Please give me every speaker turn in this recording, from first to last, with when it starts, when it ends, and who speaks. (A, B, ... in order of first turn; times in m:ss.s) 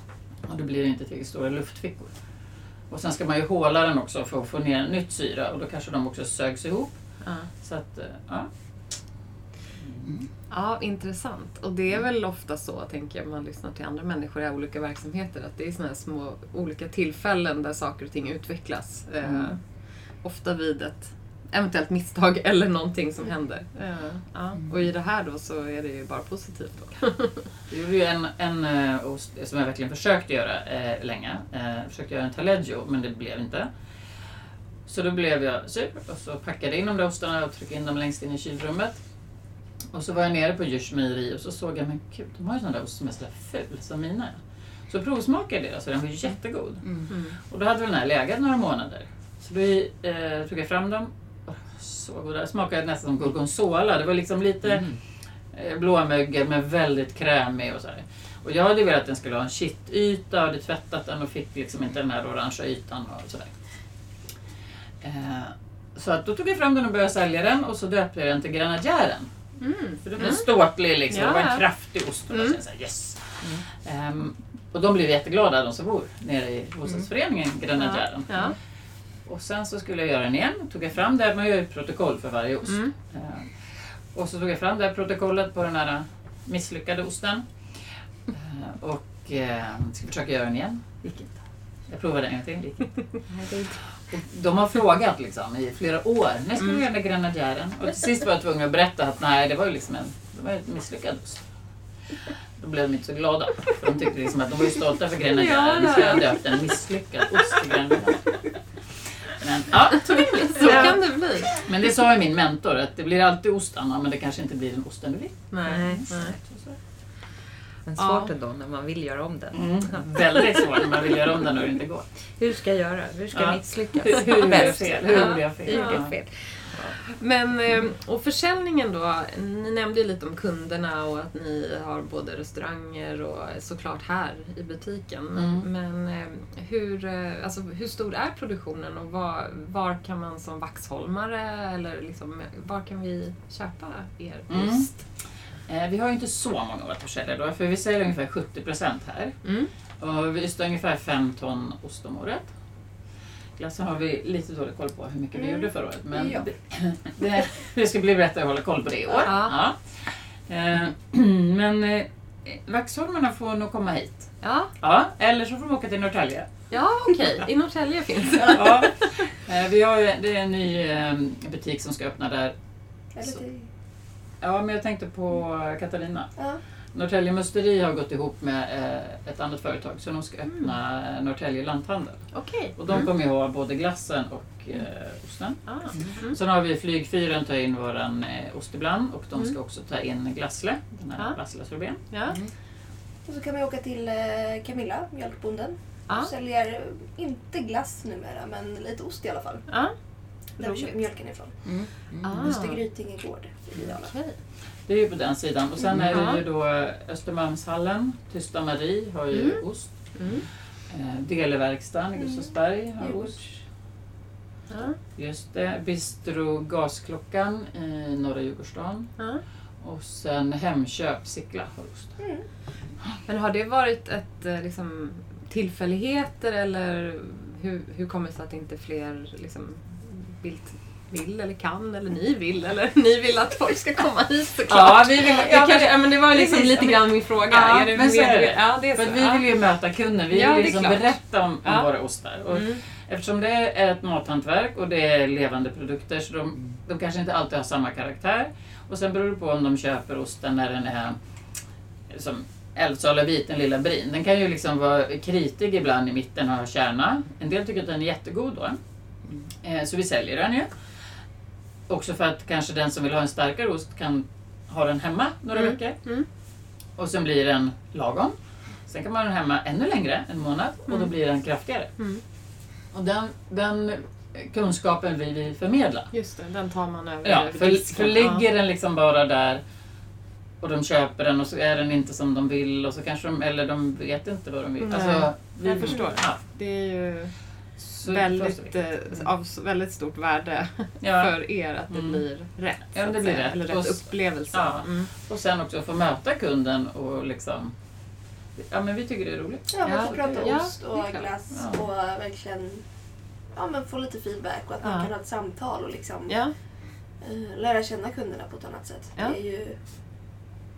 0:00.4-0:02.2 A
0:02.9-0:09.0 A
0:07.2-0:07.5 B
0:09.8-0:10.1 A
0:10.5-0:27.4 B
0:19.2-0:19.5 A
0:27.7-0:33.7 A
0:34.9-0:39.0 A
0:39.9-0:55.0 A
0:46.8-0:47.1 C
0:47.1-0:47.4 B
0:54.7-0:55.0 C
0:55.5-1:03.6 A
1:05.0-1:09.3 A
1:09.6-1:10.5 B
1:10.0-1:18.6 A
1:11.1-1:11.6 B
1:12.3-1:12.6 B
1:17.8-1:18.6 B
1:19.2-1:33.3 A
1:22.7-1:22.9 B
1:34.0-1:41.5 A
1:42.6-1:48.6 A
1:45.3-1:46.4 B
1:49.2-1:56.8 A
1:50.3-1:51.6 B
1:55.5-1:56.4 B
1:55.6-1:56.4 C
1:57.8-2:00.6 C
1:58.0-1:58.3 B
1:59.5-2:02.1 A
2:02.4-2:06.8 C
2:03.3-2:06.2 A
2:04.2-2:06.3 B
2:07.2-2:25.0 B
2:15.4-2:15.7 A
2:24.5-2:25.1 A
2:25.7-2:29.4 A
2:29.4-2:29.7 B
2:30.0-2:32.5 A
2:33.6-2:46.7 A
2:35.4-2:36.4 D
2:39.1-2:39.3 D
2:39.3-2:39.6 B
2:44.4-2:44.7 B
2:46.7-2:49.1 B
2:48.5-2:52.5 A
2:53.2-2:53.7 D
2:54.4-3:12.0 A
3:02.3-3:02.8 B
3:05.7-3:06.4 B
3:12.1-3:12.4 B
3:13.2-3:24.2 D
3:19.7-3:20.9 B
3:21.6-3:22.4 C
3:22.2-3:22.8 B
3:23.8-3:24.4 B
3:24.8-3:33.4 A
3:26.1-3:26.4 B
3:29.3-3:30.4 B
3:32.2-3:33.6 D
3:34.7-3:35.0 B
3:35.2-3:39.2 A
3:39.2-3:39.4 B
3:39.8-3:42.2 A
3:42.2-3:42.5 D
3:43.3-3:59.4 B
3:54.7-4:11.2 A
4:00.3-4:01.1 B
4:01.6-4:01.9 B
4:02.5-4:02.8 B
4:12.1-4:18.8 A
4:19.6-4:20.8 A
4:21.9-4:26.2 A
4:25.5-4:26.3 B
4:27.0-4:32.0 A
4:32.0-4:32.2 B
4:32.9-4:36.1 A
4:36.1-4:38.4 B
4:37.2-4:39.6 A
4:40.6-4:46.4 A
4:44.8-4:47.4 B
4:45.8-4:46.1 D
4:47.8-4:48.9 A
4:48.0-4:55.1 B
4:51.0-4:52.2 A
4:52.9-4:57.8 A
4:58.6-5:00.6 A
4:59.7-5:09.8 D
4:59.8-5:01.3 B
5:01.5-5:01.8 A
5:04.8-5:05.1 B
5:06.3-5:06.5 B